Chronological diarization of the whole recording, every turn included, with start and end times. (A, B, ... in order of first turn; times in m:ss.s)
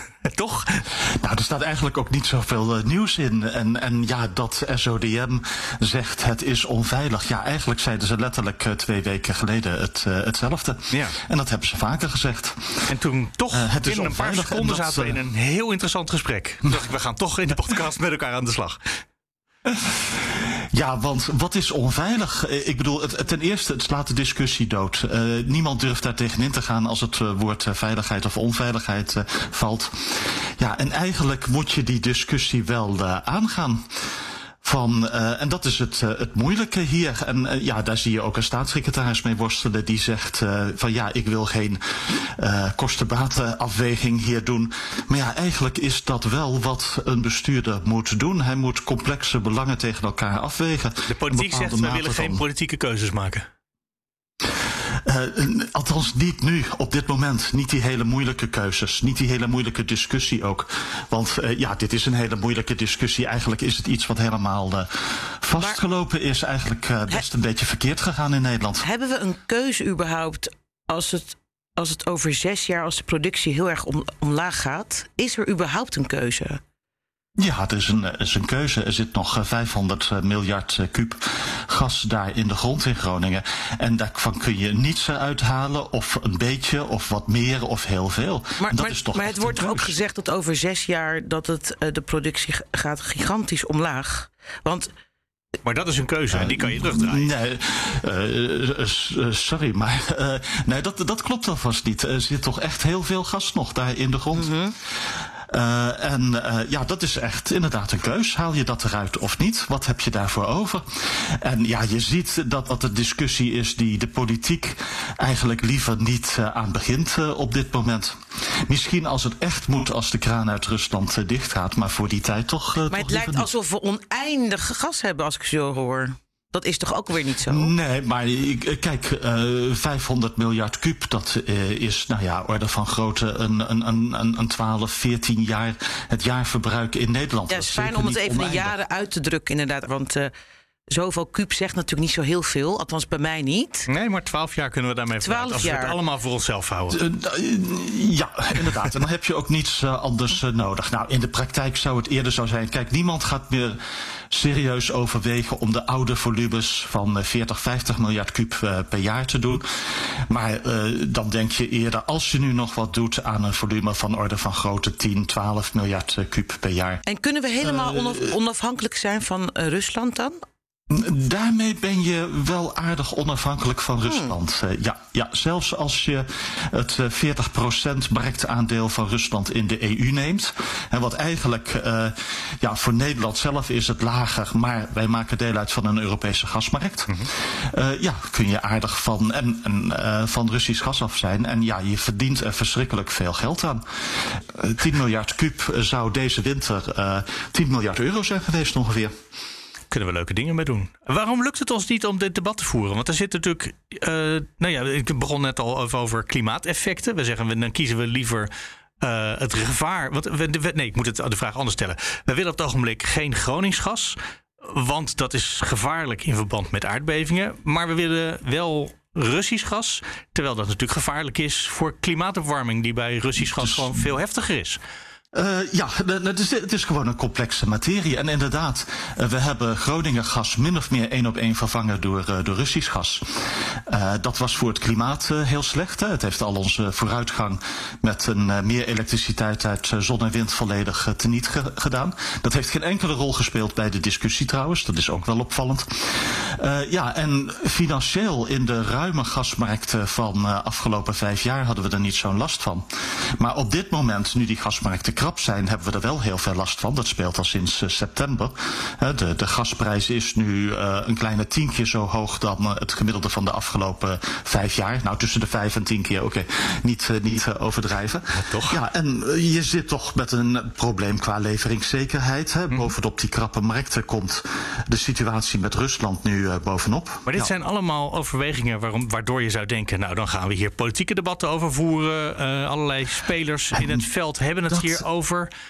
0:00.2-0:00.8 A
0:01.0-0:12.9 B
0:10.9-0:11.2 A
0:12.9-0:19.0 A
0:13.5-0:15.2 B
0:19.6-0:33.9 B
0:34.6-0:52.4 B
0:51.1-0:53.5 A
0:54.6-1:08.8 B
1:08.8-1:16.6 C
1:17.4-1:29.8 B
1:28.6-1:34.9 C
1:35.6-1:37.3 A
1:36.3-2:03.5 B
1:44.3-1:44.7 C
2:02.9-2:07.7 C
2:07.5-2:18.7 B
2:17.5-2:20.3 C
2:20.9-2:23.9 C
2:23.9-2:27.0 A
2:25.2-2:26.0 C
2:26.9-2:33.8 B
2:34.3-2:47.0 B
2:47.0-2:50.4 C
2:47.6-2:48.3 B
2:50.9-3:19.1 B
2:54.1-2:54.3 C
3:19.9-3:28.5 A
3:29.0-3:44.8 A
3:43.4-3:44.0 B
3:45.3-4:12.8 B
4:13.4-4:37.5 B
4:28.3-4:28.8 A
4:37.3-4:45.5 A
4:43.7-4:44.0 B
4:44.7-4:45.0 B